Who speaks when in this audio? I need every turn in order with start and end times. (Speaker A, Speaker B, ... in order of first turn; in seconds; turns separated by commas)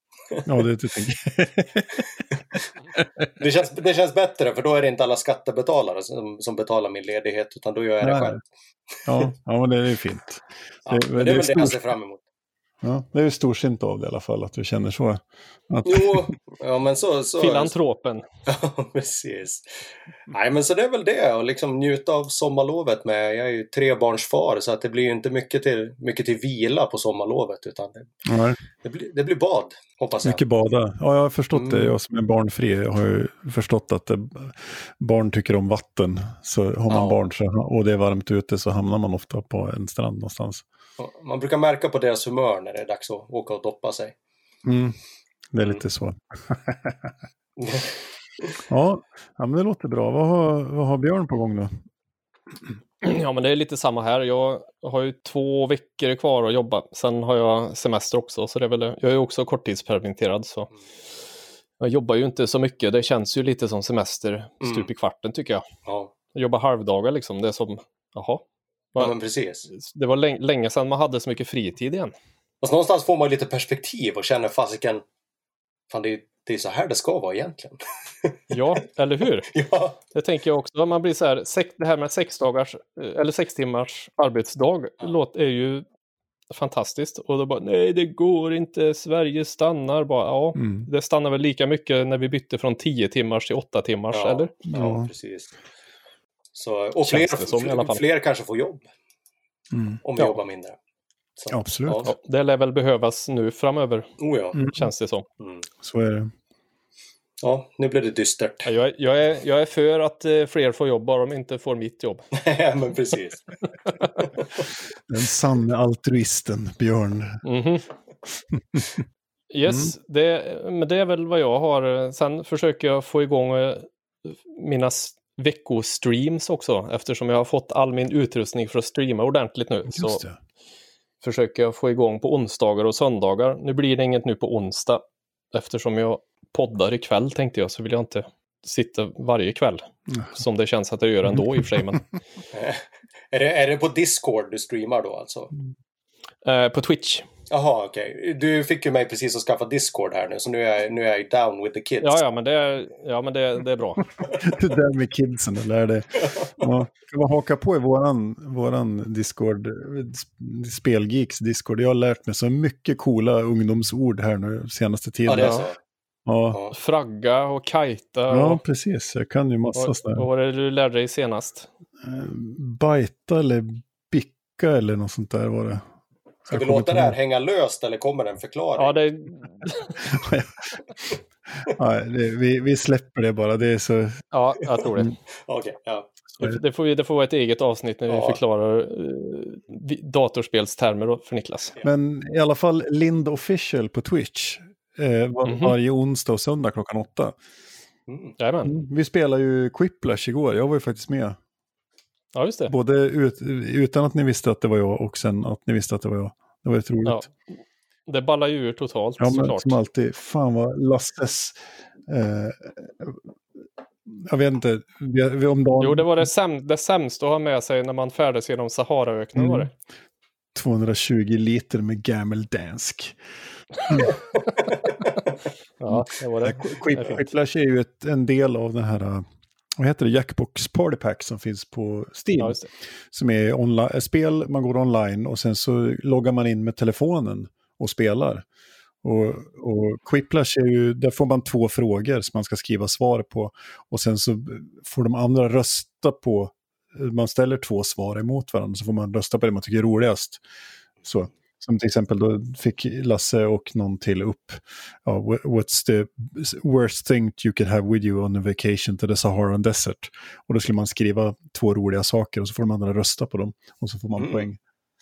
Speaker A: 0.5-2.1, Speaker B: 3.4-8.5, Speaker A: 8.0-8.4, Speaker A: 9.1-11.8, Speaker B: 10.9-12.2, Speaker A: 12.8-16.3, Speaker B: 15.8-17.8, Speaker C: 17.4-18.2, Speaker B: 18.5-28.1, Speaker A: 28.2-28.6, Speaker B: 28.8-30.4, Speaker A: 30.2-40.6, Speaker B: 31.5-31.9, Speaker B: 36.9-37.2, Speaker B: 41.0-44.1, Speaker A: 44.6-45.0, Speaker A: 45.5-47.1, Speaker B: 47.6-47.9, Speaker A: 48.7-51.7, Speaker C: 53.0-60.7, Speaker C: 61.8-65.6, Speaker B: 64.6-64.9, Speaker B: 65.9-66.1, Speaker C: 66.3-68.4, Speaker B: 69.0-69.7, Speaker C: 69.7-72.1, Speaker B: 72.6-75.0, Speaker B: 75.9-78.4, Speaker C: 78.5-79.6, Speaker B: 79.5-80.0, Speaker C: 80.1-85.8, Speaker C: 86.5-94.5, Speaker A: 90.6-90.9, Speaker B: 94.1-95.5, Speaker A: 94.7-95.1, Speaker B: 96.5-98.8, Speaker C: 97.1-98.0, Speaker A: 99.7-100.3, Speaker B: 100.0-100.8, Speaker B: 101.4-102.1, Speaker A: 101.5-102.1, Speaker C: 102.0-105.2, Speaker B: 104.2-104.6, Speaker A: 104.5-104.9, Speaker A: 105.8-106.3, Speaker B: 107.4-108.7, Speaker C: 108.7-112.2, Speaker B: 112.3-113.5, Speaker B: 114.2-114.7, Speaker A: 115.1-117.4, Speaker C: 117.5-117.8, Speaker C: 119.5-130.2, Speaker A: 119.7-119.9, Speaker A: 129.9-130.4, Speaker C: 131.2-135.0, Speaker C: 135.5-142.0, Speaker A: 140.1-140.4, Speaker B: 142.5-145.5, Speaker C: 146.4-147.3, Speaker B: 147.5-152.2, Speaker C: 152.0-154.0, Speaker A: 154.4-165.6, Speaker B: 156.3-156.7, Speaker B: 165.3-165.8, Speaker C: 165.4-165.6, Speaker A: 166.3-166.6, Speaker C: 166.7-168.6, Speaker A: 168.3-170.3, Speaker C: 169.7-171.7, Speaker A: 172.0-175.9, Speaker A: 176.5-177.2, Speaker B: 176.5-179.0, Speaker C: 178.8-180.0, Speaker A: 180.0-184.2, Speaker C: 184.3-185.2, Speaker B: 185.4-186.1, Speaker C: 186.4-191.8, Speaker B: 188.1-188.4, Speaker A: 191.8-197.4, Speaker C: 195.4-195.8, Speaker B: 198.1-198.4, Speaker C: 198.4-198.7, Speaker A: 198.7-201.4, Speaker C: 202.3-202.7, Speaker A: 202.7-207.3, Speaker C: 207.1-207.3, Speaker C: 208.1-209.8, Speaker A: 209.2-213.2, Speaker A: 214.1-216.3, Speaker C: 215.8-219.7, Speaker A: 219.4-219.7, Speaker A: 220.5-223.2, Speaker C: 225.8-227.3, Speaker A: 225.9-229.3, Speaker A: 229.8-238.5, Speaker C: 232.4-232.7, Speaker A: 239.0-250.4, Speaker A: 251.0-264.6, Speaker B: 264.2-264.5